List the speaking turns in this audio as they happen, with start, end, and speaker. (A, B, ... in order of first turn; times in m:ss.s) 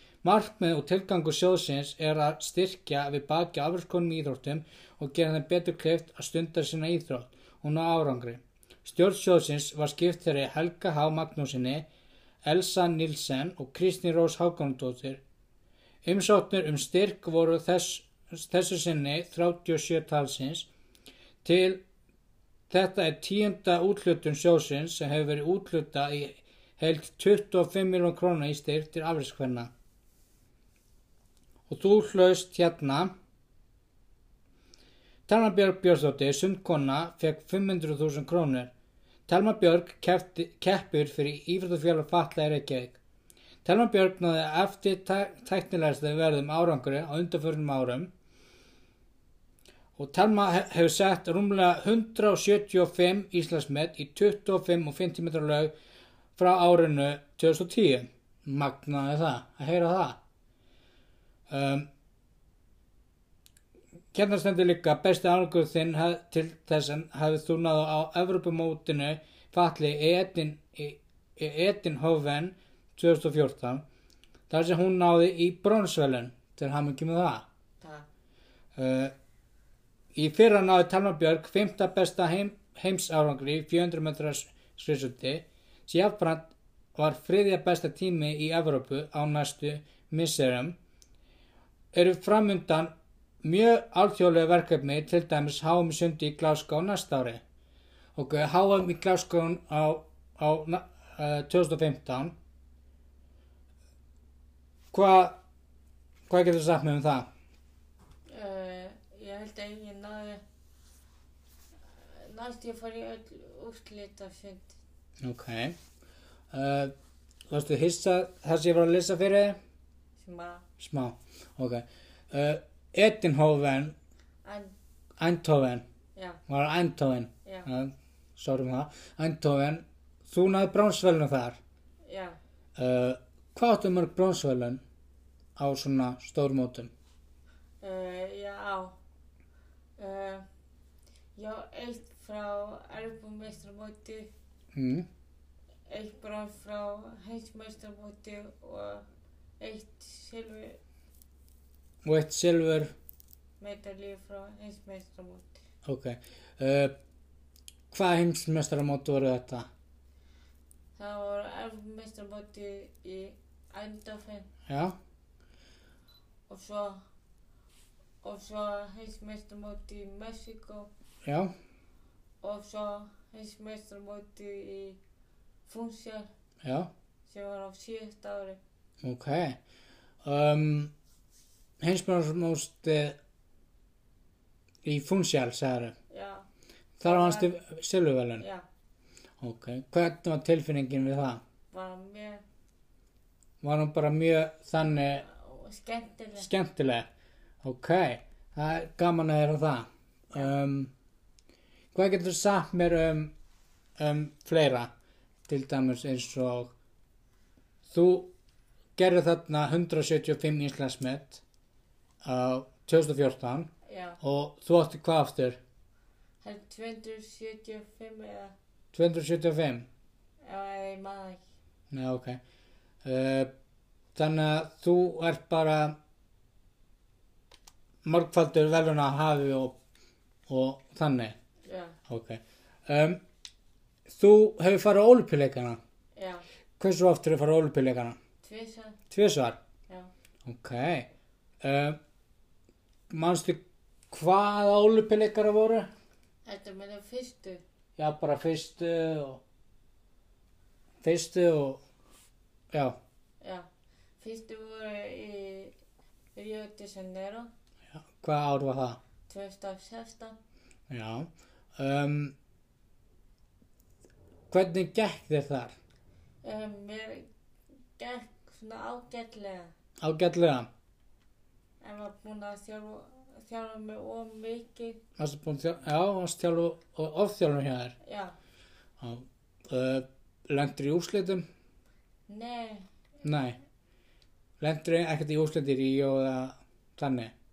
0:00.2-0:11.8 A
0:12.4-0:15.2 A
0:16.0-0:20.7 A
0:21.4-0:21.8 A
0:22.7-0:29.7 A
0:31.7-0:33.1 A
0:35.3-0:38.7 A
0:39.3-0:43.0 A
0:43.6-0:48.1 A
0:49.9-0:55.7 A
0:56.4-1:00.2 A
1:01.5-1:01.9 A
1:04.1-1:13.8 A
1:14.5-1:17.4 A
1:17.8-1:18.1 B
1:18.7-1:19.1 A
1:20.1-1:30.8 A
1:31.9-1:37.4 A
1:38.1-1:42.3 A
1:44.9-1:45.4 A
1:46.3-1:47.3 A
1:48.3-1:50.4 B
1:51.9-1:54.8 B
1:55.2-1:55.8 A
1:56.5-1:56.9 A
1:57.5-1:59.6 A
2:00.2-2:00.6 B
2:00.8-2:03.9 A
2:04.4-2:04.7 B
2:05.2-2:05.8 A
2:06.2-2:06.4 B
2:06.5-2:11.6 A
2:12.0-2:12.4 B
2:12.8-2:14.8 A
2:15.6-2:16.9 A
2:17.8-2:19.0 B
2:20.0-2:20.4 B
2:21.4-2:24.3 B
2:24.7-2:25.1 A
2:25.9-2:29.0 B
2:29.6-2:30.8 B
2:32.0-2:32.9 A
2:33.6-2:35.6 B
2:35.8-2:36.9 A
2:37.9-2:39.7 A
2:41.0-2:44.5 B
2:44.7-2:45.0 A
2:46.5-2:47.0 B
2:48.2-2:50.9 B
2:51.2-2:51.5 A
2:52.4-2:55.0 B
2:55.7-2:56.3 B
2:56.6-2:56.9 A
2:57.3-2:58.6 B
2:59.0-2:59.6 A
3:00.2-3:00.9 A
3:01.8-3:03.2 A
3:04.8-3:05.9 A
3:06.1-3:06.5 B
3:07.0-3:08.4 A
3:07.0-3:07.5 B
3:08.4-3:08.6 B
3:09.4-3:11.4 A
3:11.7-3:12.4 B
3:13.6-3:15.2 A
3:15.2-3:16.5 B
3:16.4-3:17.1 A
3:17.6-3:20.9 A
3:21.9-3:23.3 A
3:24.0-3:24.9 A
3:25.5-3:26.7 A
3:27.9-3:28.3 A
3:29.0-3:31.4 A
3:32.2-3:35.6 A
3:33.8-3:34.2 B
3:36.4-3:38.5 B
3:38.9-3:39.9 A
3:40.4-3:41.4 B
3:41.9-3:42.4 A
3:43.0-3:43.5 A
3:44.1-3:46.0 A
3:48.0-3:49.8 A
3:50.5-3:51.4 A
3:51.6-3:52.0 B
3:52.1-3:53.2 A
3:54.1-3:55.8 A
3:56.2-3:56.4 B
3:56.8-3:58.2 A
3:58.4-3:59.0 B
3:59.1-3:59.6 A
4:00.4-4:01.1 A
4:01.6-4:02.0 A
4:03.1-4:05.9 A
4:06.4-4:07.6 B
4:08.0-4:09.4 A
4:11.0-4:11.8 A
4:12.7-4:13.0 A
4:13.4-4:13.7 B
4:14.2-4:15.8 B
4:16.3-4:17.5 B
4:17.9-4:19.0 A
4:19.3-4:20.4 B
4:20.9-4:22.3 A
4:24.5-4:25.7 A
4:26.4-4:27.3 B
4:28.0-4:29.7 B
4:30.0-4:30.7 A
4:31.8-4:35.0 B
4:35.2-4:38.0 A
4:38.0-4:38.3 B
4:39.0-4:41.4 A
4:42.3-4:42.9 B
4:43.2-4:43.6 A
4:44.6-4:47.3 A